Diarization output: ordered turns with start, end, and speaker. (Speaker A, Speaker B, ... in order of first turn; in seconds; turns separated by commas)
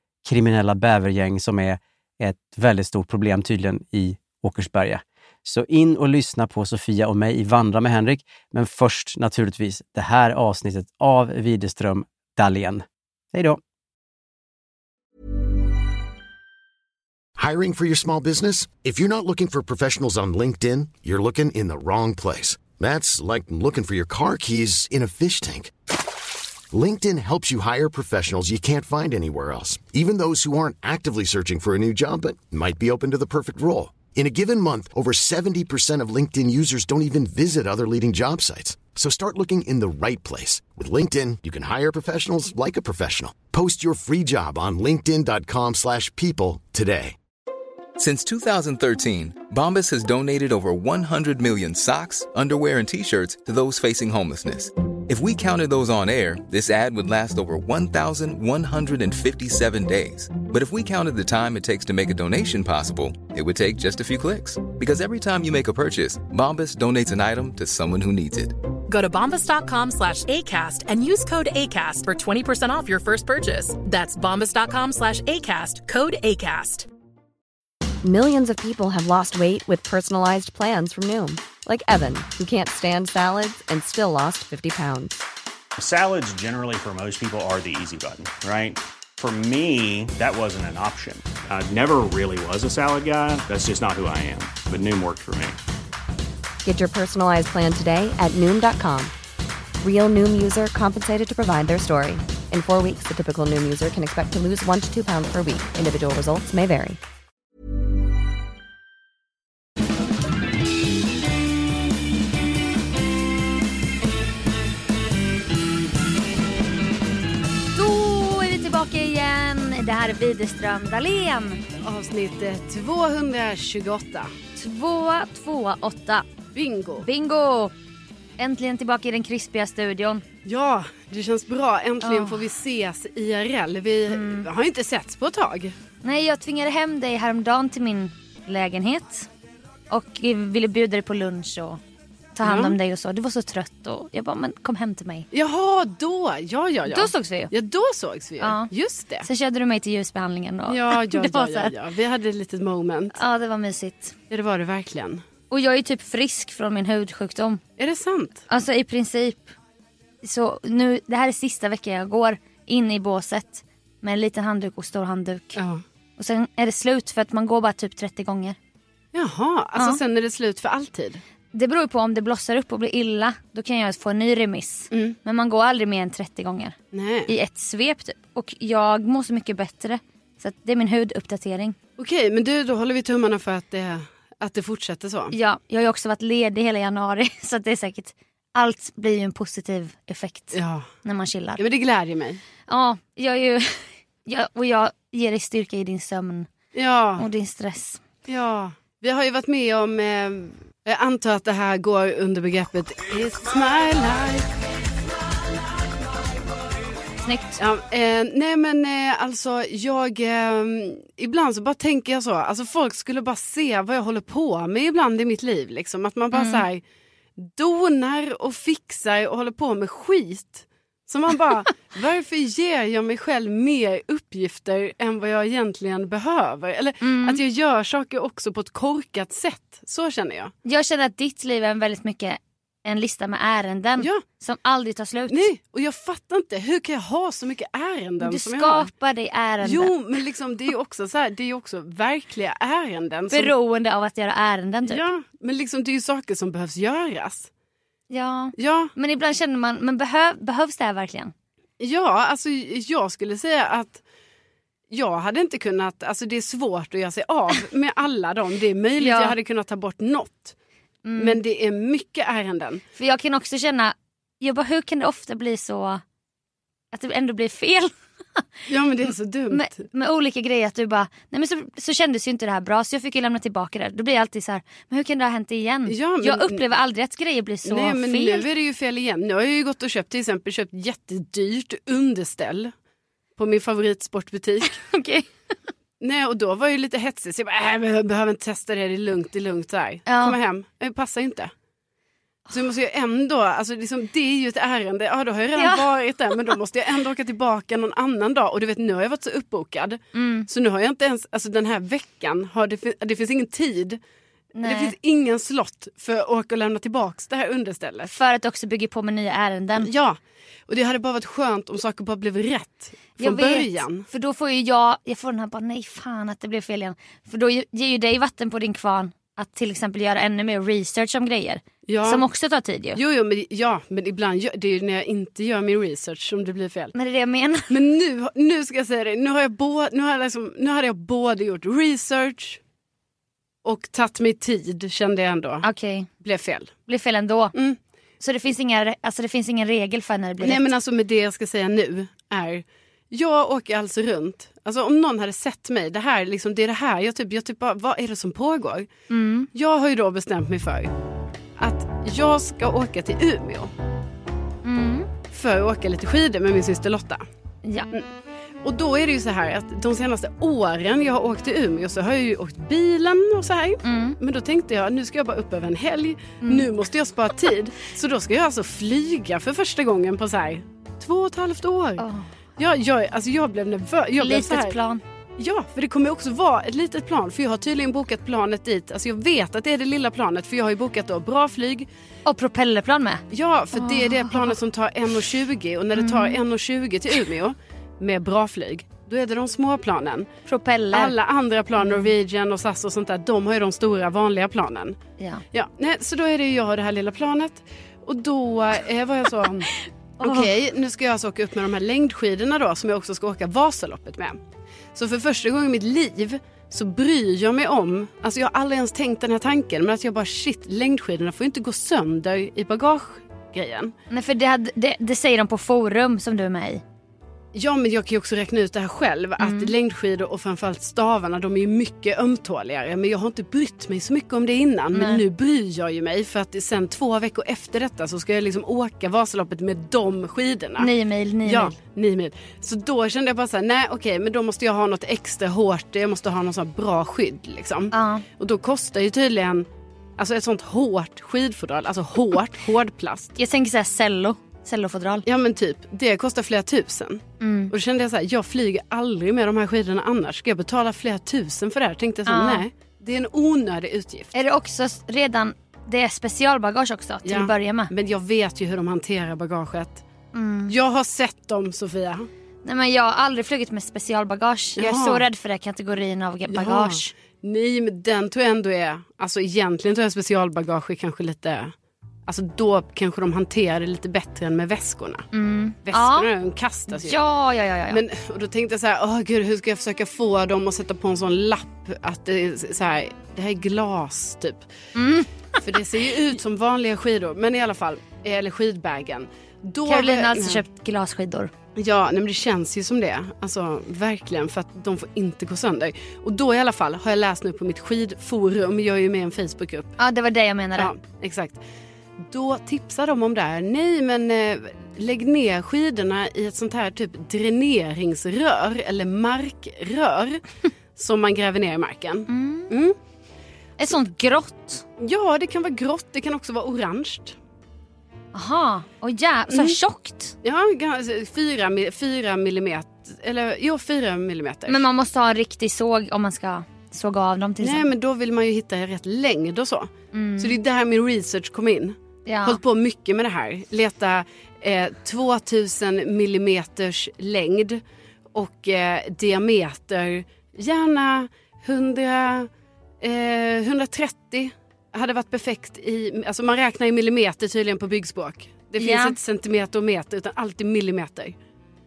Speaker A: 0.2-13.6, Speaker B: 17.4-25.7, Speaker B: 26.7-47.2, Speaker C: 48.0-68.5, Speaker D: 68.9-76.9, Speaker E: 78.0-85.2, Speaker F: 85.8-95.6, Speaker E: 96.6-99.1, Speaker E: 99.8-107.0, Speaker G: 117.8-121.6, Speaker H: 121.8-124.3, Speaker G: 124.6-126.2, Speaker H: 126.5-127.1, Speaker G: 127.0-127.7, Speaker G: 128.4-130.2, Speaker H: 130.5-135.8, Speaker G: 132.0-132.4, Speaker G: 134.1-134.5, Speaker G: 136.0-139.3, Speaker G: 139.9-141.8, Speaker G: 142.4-145.3, Speaker H: 142.4-142.8, Speaker H: 145.3-149.3, Speaker G: 146.9-147.5, Speaker G: 148.4-148.7, Speaker G: 149.2-151.7, Speaker H: 150.7-153.2, Speaker G: 153.1-154.2, Speaker H: 154.3-155.2, Speaker G: 155.5-157.6, Speaker H: 157.8-158.4, Speaker G: 158.5-159.5, Speaker G: 160.2-165.6, Speaker H: 165.6-165.8, Speaker G: 166.2-168.6, Speaker H: 169.1-171.2, Speaker G: 171.5-176.8, Speaker H: 176.9-177.3, Speaker G: 177.3-181.8, Speaker H: 182.0-185.3, Speaker G: 185.3-191.6, Speaker H: 190.5-190.9, Speaker H: 191.6-192.4, Speaker G: 192.7-196.5, Speaker H: 196.7-197.3, Speaker G: 197.2-198.0, Speaker H: 198.3-204.5, Speaker G: 207.2-207.6, Speaker H: 207.6-216.8, Speaker G: 216.3-216.6, Speaker H: 217.4-230.5, Speaker G: 227.0-227.4, Speaker G: 230.7-235.5, Speaker H: 235.3-238.9, Speaker G: 238.2-239.9, Speaker H: 239.6-243.5, Speaker G: 243.3-245.1, Speaker H: 244.9-247.5, Speaker G: 248.1-251.3, Speaker H: 248.6-248.9, Speaker H: 251.8-254.0, Speaker H: 254.9-260.6, Speaker G: 259.0-259.3, Speaker G: 261.1-261.4, Speaker H: 261.2-262.8, Speaker G: 263.0-266.0, Speaker G: 266.9-268.4, Speaker H: 268.7-269.7, Speaker G: 269.1-278.5, Speaker H: 275.9-276.6, Speaker H: 277.7-282.7, Speaker H: 283.4-284.8, Speaker G: 284.7-285.3, Speaker H: 286.0-291.5, Speaker G: 290.1-290.4, Speaker H: 292.5-304.0, Speaker G: 295.6-295.9, Speaker G: 300.1-300.5, Speaker G: 304.6-304.9, Speaker H: 304.6-308.1, Speaker G: 308.1-309.9, Speaker H: 309.8-314.1, Speaker G: 313.2-323.0, Speaker H: 321.9-322.2, Speaker H: 323.0-326.9, Speaker G: 326.9-327.7, Speaker H: 327.7-332.6, Speaker H: 333.6-335.7, Speaker G: 335.6-336.1, Speaker H: 336.2-336.7, Speaker G: 336.9-337.5, Speaker G: 338.2-340.7, Speaker H: 340.4-348.9, Speaker G: 349.1-349.5, Speaker H: 349.5-350.9, Speaker H: 351.6-353.7, Speaker G: 354.6-355.1, Speaker H: 355.3-357.2, Speaker G: 357.6-357.9, Speaker H: 358.6-372.1, Speaker G: 363.8-364.2, Speaker G: 372.0-372.3, Speaker H: 372.6-374.8, Speaker G: 374.2-375.0, Speaker H: 375.4-381.9, Speaker G: 382.3-384.6, Speaker H: 383.3-390.3, Speaker G: 386.0-386.4, Speaker G: 390.5-391.1, Speaker H: 390.9-395.0, Speaker G: 391.8-392.1, Speaker H: 395.5-404.4, Speaker G: 400.2-400.5, Speaker H: 404.9-413.9, Speaker G: 414.1-416.8, Speaker H: 417.5-430.9, Speaker G: 419.4-419.7, Speaker G: 424.9-425.2, Speaker G: 430.8-431.7, Speaker H: 431.5-439.7, Speaker G: 437.9-438.2, Speaker H: 440.2-443.4, Speaker G: 443.4-445.2, Speaker H: 445.2-454.3, Speaker G: 447.4-447.7, Speaker G: 452.3-452.6, Speaker G: 454.3-457.9, Speaker H: 457.2-460.0, Speaker G: 460.3-460.8, Speaker H: 460.7-462.3, Speaker G: 462.6-467.1, Speaker H: 464.8-465.2, Speaker H: 466.5-471.7, Speaker H: 472.3-475.3, Speaker G: 475.3-476.3, Speaker H: 475.9-477.2, Speaker G: 476.9-478.0, Speaker H: 477.9-484.6, Speaker G: 484.9-485.6, Speaker H: 485.6-490.6, Speaker G: 489.9-491.5, Speaker H: 491.8-499.9, Speaker G: 500.0-500.9, Speaker H: 500.8-501.6, Speaker H: 502.3-510.4, Speaker H: 511.0-513.0, Speaker G: 512.3-512.7, Speaker G: 513.8-514.8, Speaker H: 515.0-517.4, Speaker G: 518.3-520.4, Speaker H: 519.5-519.8, Speaker H: 520.4-524.8, Speaker G: 524.7-527.9, Speaker H: 527.6-537.8, Speaker G: 530.1-530.6, Speaker G: 532.3-532.6, Speaker H: 538.3-542.5, Speaker H: 543.0-551.4, Speaker G: 548.8-549.2